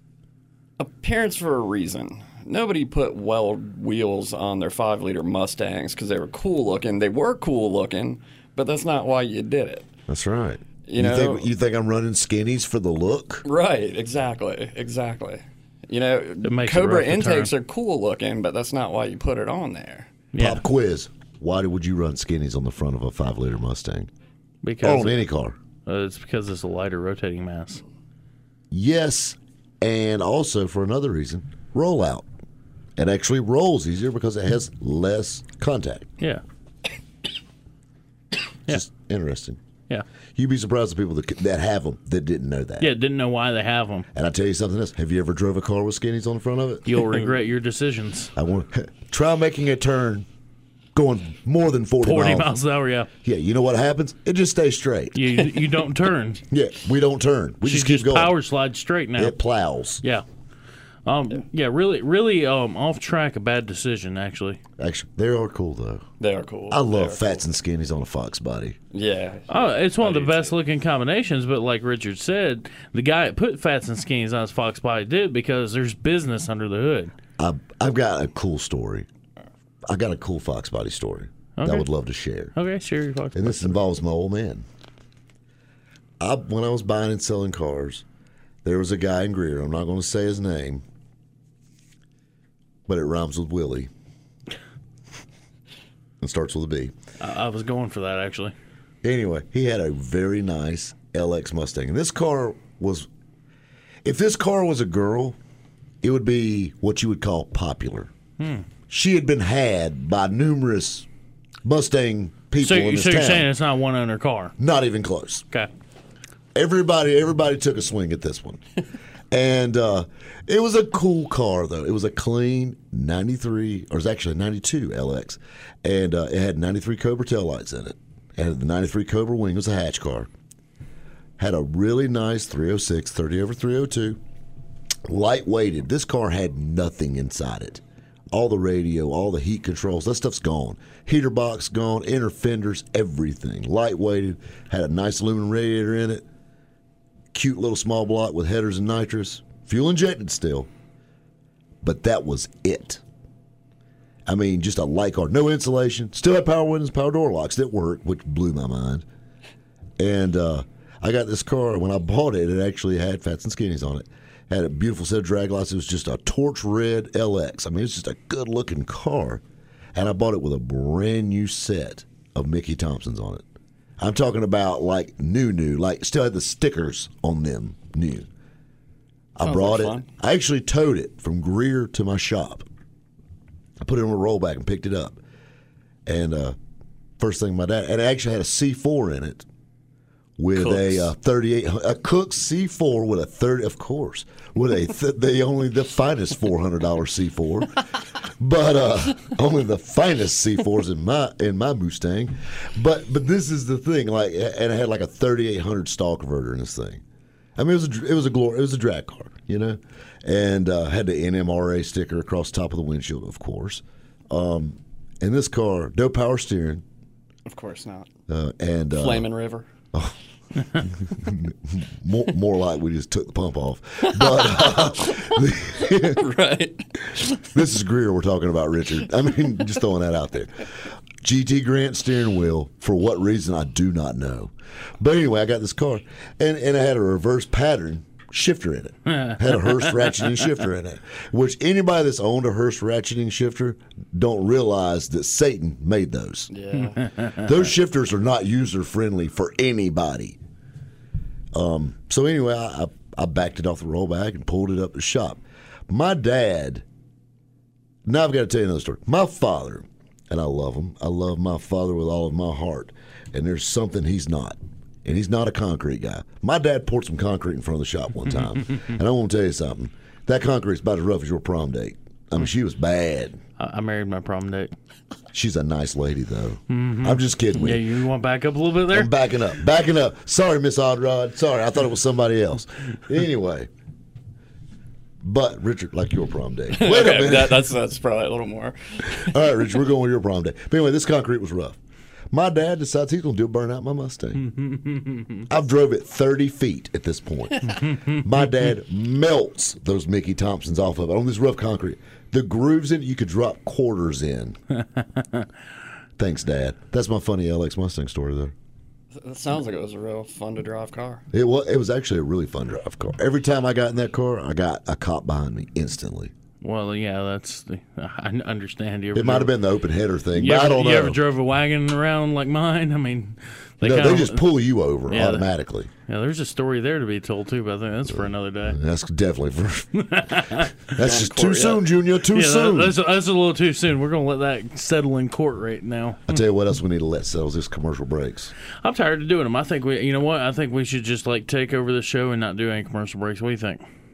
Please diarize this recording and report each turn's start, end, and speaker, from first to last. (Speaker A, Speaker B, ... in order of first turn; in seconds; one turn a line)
Speaker A: 0.8-9.9
Speaker B: 10.1-13.4
Speaker A: 10.9-11.5
Speaker A: 13.4-20.1
Speaker C: 16.4-17.5
Speaker C: 20.3-20.6
Speaker B: 20.4-24.1
Speaker C: 24.6-25.2
Speaker B: 24.8-25.6
Speaker C: 25.9-27.8
Speaker B: 28.7-32.2
Speaker B: 33.0-36.1
Speaker B: 38.7-39.6
Speaker B: 40.4-42.9
Speaker C: 42.8-44.1
Speaker B: 44.1-47.0
Speaker C: 46.9-48.3
Speaker B: 48.3-50.3
Speaker B: 50.9-52.5
Speaker C: 52.0-53.1
Speaker B: 53.2-55.2
Speaker C: 55.1-56.4
Speaker B: 56.5-58.3
Speaker C: 57.6-59.4
Speaker B: 59.2-60.0
Speaker C: 61.0-64.6
Speaker B: 64.8-66.0
Speaker A: 66.2-67.4
Speaker B: 66.7-68.8
Speaker A: 68.9-70.5
Speaker C: 69.5-77.1
Speaker B: 77.4-79.1
Speaker B: 79.9-82.5
Speaker C: 81.6-81.9
Speaker C: 82.5-83.8
Speaker B: 83.3-84.6
Speaker B: 86.2-88.0
Speaker B: 88.6-90.8
Speaker B: 92.9-93.9
Speaker B: 96.2-96.9
Speaker C: 97.2-98.5
Speaker B: 99.0-103.1
Speaker B: 104.0-105.3
Speaker B: 106.0-108.1
Speaker C: 108.4-108.7
Speaker B: 108.9-111.1
Speaker B: 111.6-113.5
Speaker C: 112.6-114.5
Speaker B: 114.6-115.4
Speaker B: 116.5-118.6
Speaker B: 119.3-130.3
Speaker B: 131.4-134.2
Speaker B: 135.1-146.2
Speaker B: 147.3-150.7
Speaker B: 151.8-153.0
Speaker B: 154.2-159.0
Speaker B: 160.0-169.4
Speaker B: 169.9-173.4
Speaker B: 174.0-178.3
Speaker B: 179.3-182.7
Speaker A: 179.4-180.1
Speaker B: 183.8-185.2
Speaker B: 186.1-186.6
Speaker B: 187.2-189.4
Speaker B: 190.4-207.0
Speaker A: 190.5-191.1
Speaker B: 207.6-216.8
Speaker A: 217.4-218.1
Speaker B: 218.3-219.3
Speaker A: 218.9-219.7
Speaker B: 220.7-226.2
Speaker A: 224.3-227.4
Speaker B: 227.4-246.5
Speaker C: 239.1-240.2
Speaker A: 246.5-247.0
Speaker B: 247.4-250.4
Speaker B: 251.5-256.8
Speaker B: 258.1-273.4
Speaker C: 273.6-274.7
Speaker B: 275.3-277.8
Speaker C: 276.7-279.1
Speaker B: 278.9-283.7
Speaker B: 285.2-287.6
Speaker A: 286.8-289.4
Speaker B: 289.1-291.8
Speaker B: 292.3-294.5
Speaker C: 294.4-295.4
Speaker B: 295.5-304.6
Speaker C: 297.9-298.1
Speaker C: 304.9-305.5
Speaker B: 306.2-308.5
Speaker A: 309.1-311.2
Speaker B: 311.3-316.3
Speaker C: 316.6-319.5
Speaker B: 319.1-321.2
Speaker C: 320.3-324.4
Speaker B: 323.8-325.9
Speaker C: 325.1-325.5
Speaker C: 326.1-328.8
Speaker B: 328.1-332.9
Speaker C: 330.0-330.8
Speaker A: 331.0-331.8
Speaker C: 332.3-336.3
Speaker B: 336.3-338.5
Speaker C: 338.8-343.8